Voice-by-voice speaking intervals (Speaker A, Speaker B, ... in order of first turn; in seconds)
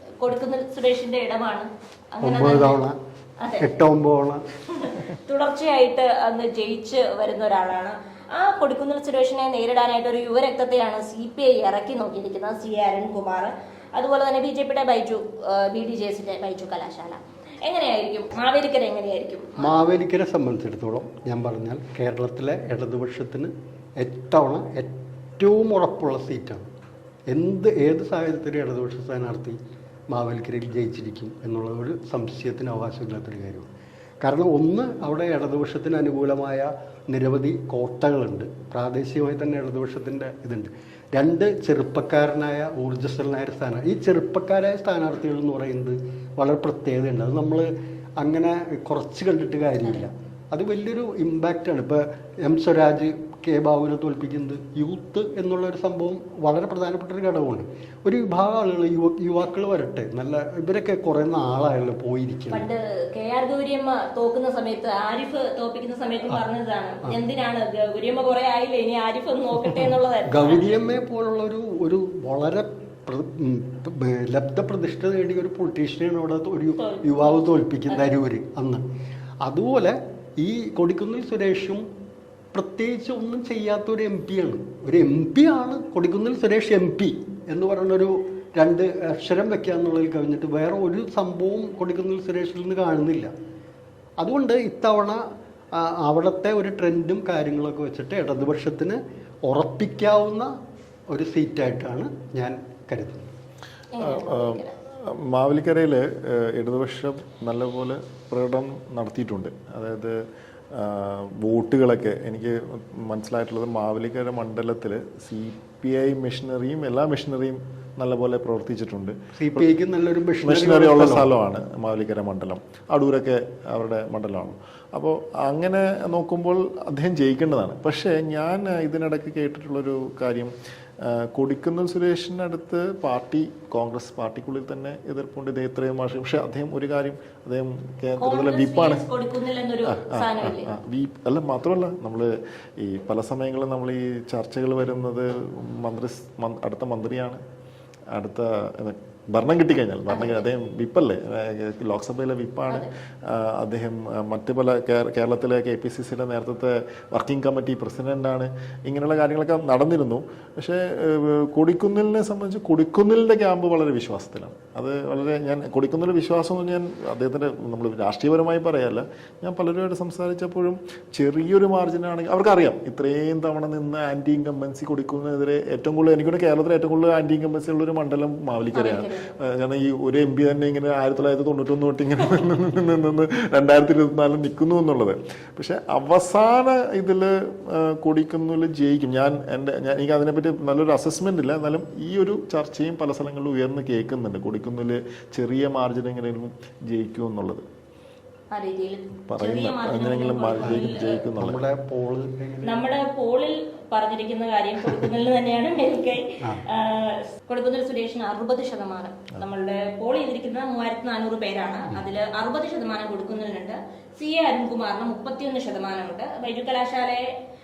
Speaker A: 0.2-2.8, 3.4-3.7, 4.7-19.7, 62.5-70.8, 76.8-78.1, 103.9-104.7, 138.2-140.7, 150.1-150.4, 178.7-179.3, 198.5-201.2, 202.6-217.2
Speaker B: 2.2-3.0, 3.6-4.4, 19.6-26.7, 27.3-29.6, 30.1-33.6, 34.2-47.7, 48.2-62.7, 70.3-78.8, 79.4-81.8, 82.5-93.3, 94.2-95.2, 95.7-100.5, 101.1-103.3, 119.3-121.3, 200.6-202.8
Speaker C: 104.0-110.2, 110.7-119.7, 120.4-139.0, 139.9-147.4, 148.1-197.6, 199.2-201.6